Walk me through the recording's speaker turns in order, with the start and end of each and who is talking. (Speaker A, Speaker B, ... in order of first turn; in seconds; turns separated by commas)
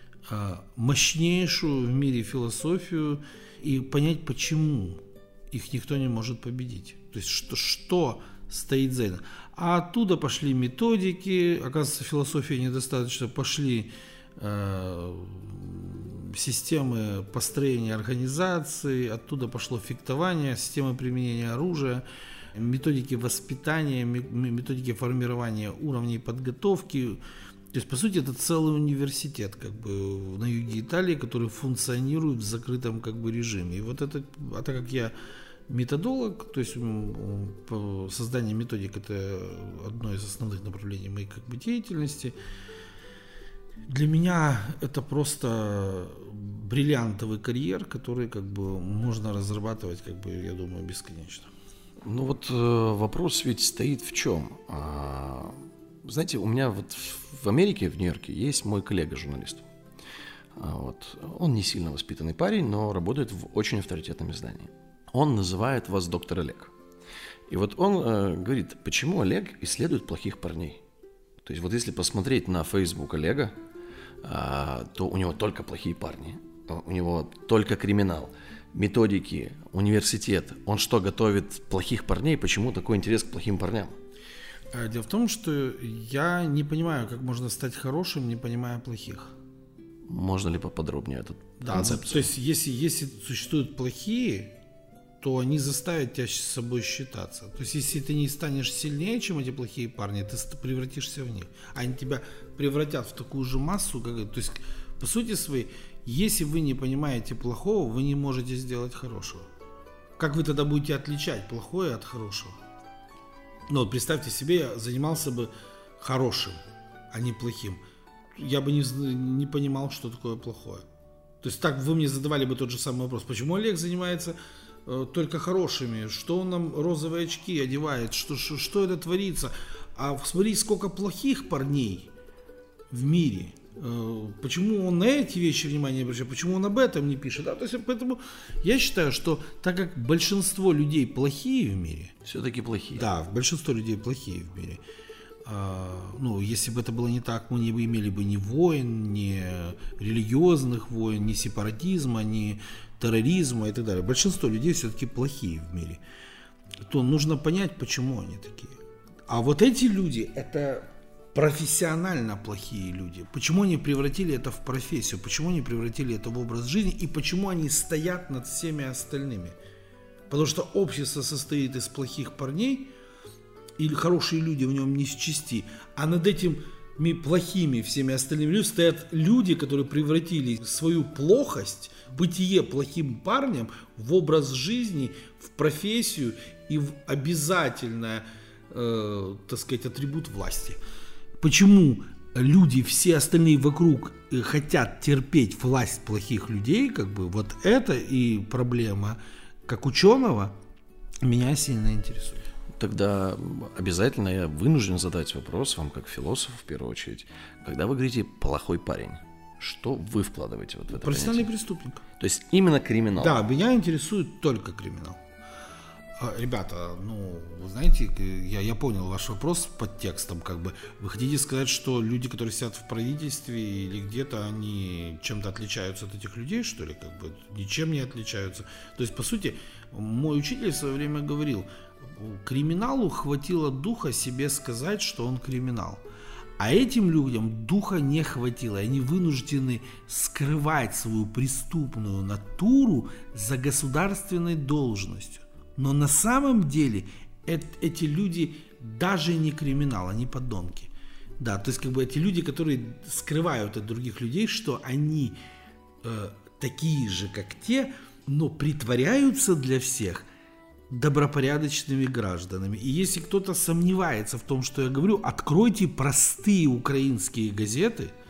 Speaker A: 0.3-27.2, Speaker A: 27.7-35.1, Speaker A: 35.7-42.4, Speaker A: 43.9-51.5, Speaker B: 52.0-59.7, Speaker B: 60.6-66.7, Speaker B: 67.5-70.8, Speaker B: 71.4-73.5, Speaker B: 74.2-83.9, Speaker A: 84.7-89.3, Speaker B: 90.1-92.3, Speaker A: 91.6-94.5, Speaker A: 95.2-109.5, Speaker A: 110.2-112.6, Speaker A: 113.7-116.6, Speaker A: 117.1-117.8, Speaker A: 118.3-120.8, Speaker A: 121.4-132.1, Speaker A: 132.9-142.1, Speaker B: 142.2-143.1, Speaker A: 142.9-144.8, Speaker A: 145.4-156.0, Speaker A: 156.9-169.6, Speaker A: 170.3-172.9, Speaker A: 173.8-190.8, Speaker A: 191.4-200.6, Speaker A: 201.2-202.4, Speaker B: 202.8-211.5, Speaker A: 210.9-212.0, Speaker B: 212.2-213.4, Speaker A: 213.2-215.2, Speaker A: 216.2-236.0, Speaker A: 236.6-255.4, Speaker A: 256.0-260.3, Speaker A: 260.9-268.1